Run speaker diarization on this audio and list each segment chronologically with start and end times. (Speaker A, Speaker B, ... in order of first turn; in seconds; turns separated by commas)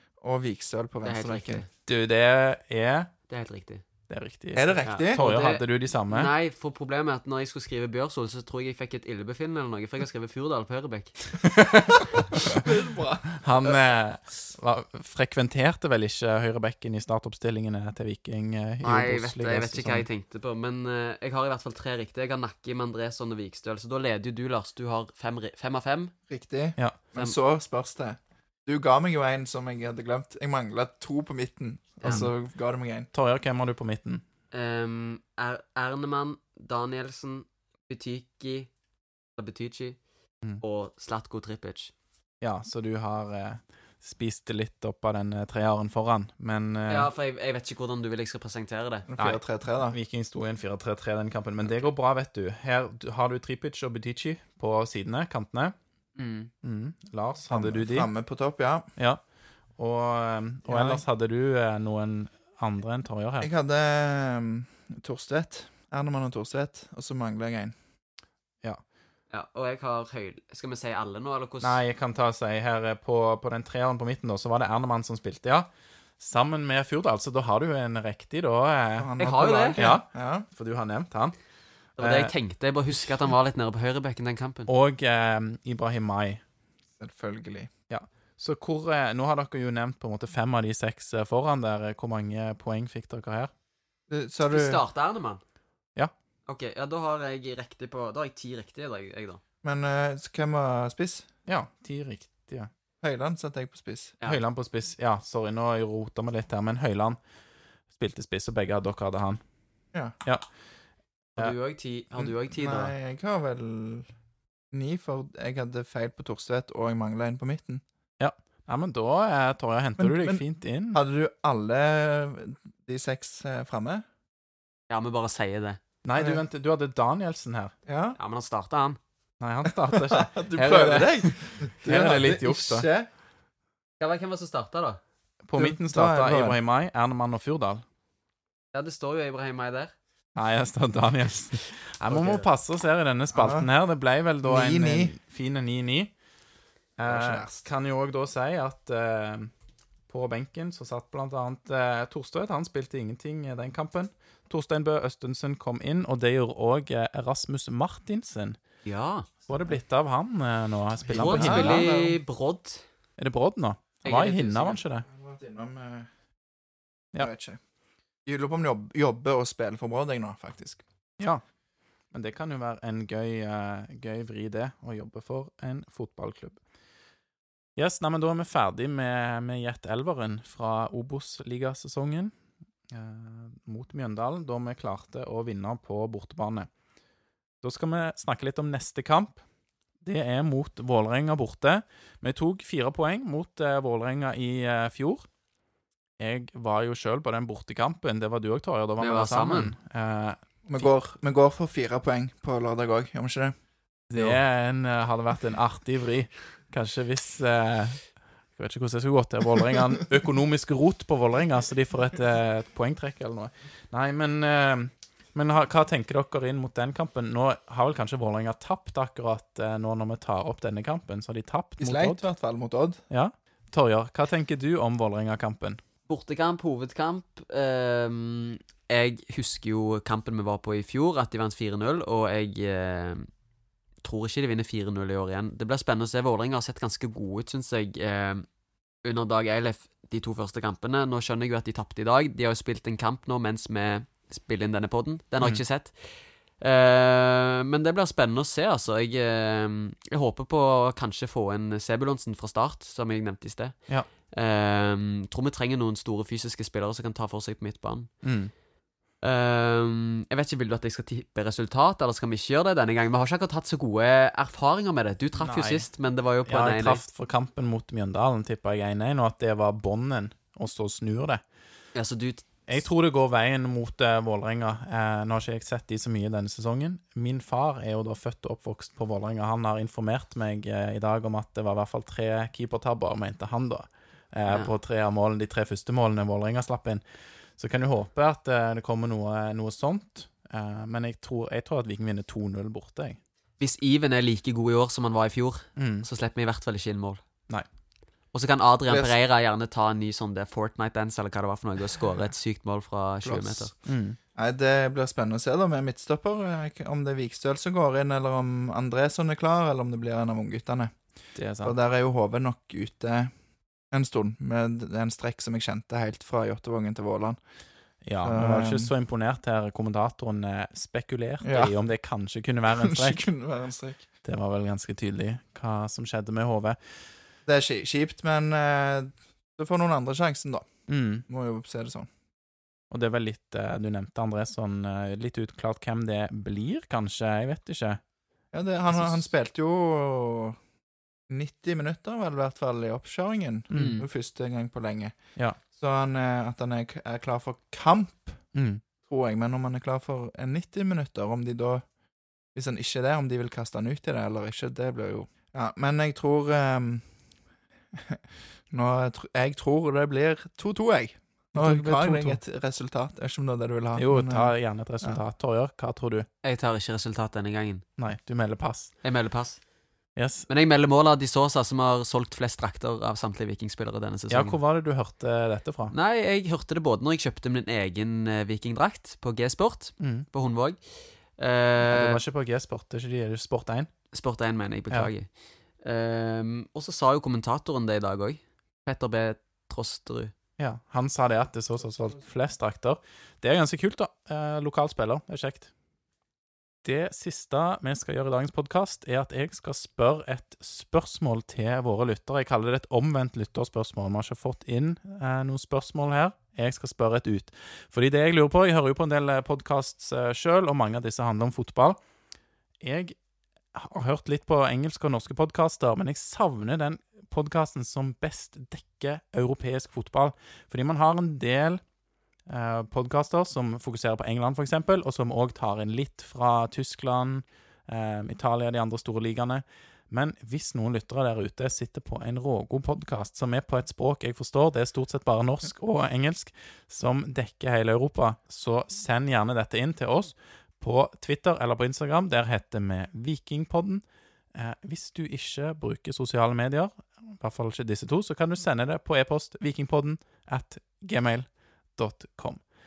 Speaker A: 0.2-1.6, Speaker B: 1.0-1.7, Speaker C: 1.9-3.1, Speaker B: 3.3-3.8, Speaker C: 4.1-6.3, Speaker A: 4.5-5.2, Speaker B: 4.8-11.3, Speaker C: 11.4-12.7, Speaker A: 12.5-13.8, Speaker C: 13.4-20.1, Speaker B: 18.8-26.1, Speaker A: 26.3-33.1, Speaker C: 33.1-34.2, Speaker B: 34.5-38.7, Speaker B: 39.4-40.0, Speaker B: 40.6-41.9, Speaker C: 42.4-47.1, Speaker B: 46.9-49.1, Speaker A: 49.1-50.0, Speaker C: 49.2-55.7, Speaker B: 56.1-56.5, Speaker C: 56.6-58.1, Speaker A: 57.5-58.9, Speaker C: 59.0-59.2, Speaker C: 59.8-63.5, Speaker A: 60.6-61.0, Speaker A: 63.4-67.7, Speaker B: 69.3-71.8, Speaker C: 71.6-79.1, Speaker A: 79.0-80.5, Speaker B: 79.2-79.8, Speaker C: 79.8-81.3, Speaker B: 82.0-84.7, Speaker C: 82.0-82.3, Speaker C: 84.7-86.4, Speaker A: 87.0-87.7, Speaker C: 87.9-93.5, Speaker A: 94.1-94.8, Speaker B: 94.5-95.4, Speaker B: 96.5-99.4, Speaker A: 99.6-101.3, Speaker C: 101.5-102.7, Speaker A: 103.0-104.2, Speaker C: 104.2-107.2, Speaker C: 107.9-109.4, Speaker C: 110.2-110.5, Speaker B: 111.4-112.9, Speaker A: 112.2-114.1, Speaker A: 114.7-117.8, Speaker C: 118.2-121.0, Speaker A: 120.0-124.0, Speaker B: 124.9-125.8, Speaker C: 126.0-127.7, Speaker A: 126.2-126.4, Speaker A: 127.8-128.2, Speaker B: 128.2-129.0, Speaker C: 129.4-132.9, Speaker A: 129.6-133.1, Speaker B: 134.0-135.0, Speaker C: 135.4-137.8, Speaker A: 135.6-136.6, Speaker B: 138.7-139.9, Speaker C: 140.3-146.1, Speaker B: 142.1-142.5, Speaker A: 143.3-143.7, Speaker A: 144.4-145.1, Speaker C: 147.0-149.5, Speaker A: 147.0-147.7, Speaker C: 150.1-158.6, Speaker B: 158.8-159.3, Speaker C: 159.4-161.8, Speaker B: 161.1-162.8, Speaker A: 161.2-162.2, Speaker C: 163.2-165.1, Speaker B: 164.0-164.8, Speaker A: 165.1-166.1, Speaker A: 167.1-167.6, Speaker A: 168.2-170.8, Speaker C: 172.1-176.6, Speaker C: 177.8-182.3, Speaker C: 182.9-186.7, Speaker C: 187.6-189.4, Speaker C: 190.0-195.3, Speaker C: 196.2-200.9, Speaker B: 199.0-199.7, Speaker A: 200.7-203.6, Speaker C: 204.1-222.2, Speaker A: 204.1-204.4, Speaker A: 221.8-223.0, Speaker C: 223.1-225.8, Speaker B: 226.1-233.3, Speaker B: 234.0-238.5, Speaker B: 239.0-258.1, Speaker C: 258.2-258.5, Speaker B: 259.2-267.0, Speaker C: 265.4-265.9, Speaker C: 266.4-271.4, Speaker B: 271.9-272.4, Speaker C: 272.7-287.0, Speaker C: 287.5-293.2, Speaker B: 293.6-297.2, Speaker C: 295.8-296.1, Speaker B: 298.3-303.7, Speaker A: 298.9-299.1, Speaker A: 303.2-303.8, Speaker C: 303.9-304.2, Speaker A: 304.3-313.3, Speaker C: 311.3-311.8, Speaker A: 313.9-317.4, Speaker C: 318.0-323.3, Speaker A: 318.2-318.9, Speaker A: 321.4-321.8, Speaker A: 322.8-324.1, Speaker C: 324.2-326.8, Speaker A: 327.4-330.7, Speaker C: 330.9-331.2, Speaker A: 331.3-332.1, Speaker C: 332.9-338.0, Speaker A: 338.5-340.6, Speaker A: 341.3-348.4, Speaker C: 343.7-344.0, Speaker B: 343.7-344.1, Speaker C: 348.5-348.8, Speaker A: 349.0-351.9, Speaker A: 352.5-357.1, Speaker A: 357.9-364.5, Speaker C: 361.5-362.4, Speaker C: 363.9-366.3, Speaker B: 366.4-367.8, Speaker C: 368.0-368.9, Speaker B: 369.0-369.6, Speaker C: 370.1-370.5, Speaker B: 370.5-374.6, Speaker C: 374.3-375.9, Speaker B: 375.9-382.2, Speaker C: 380.0-380.3, Speaker C: 381.9-383.9, Speaker B: 384.1-390.3, Speaker C: 390.6-395.7, Speaker C: 396.8-412.0, Speaker C: 412.8-413.1, Speaker C: 413.7-421.8, Speaker C: 422.5-444.0, Speaker C: 444.5-452.6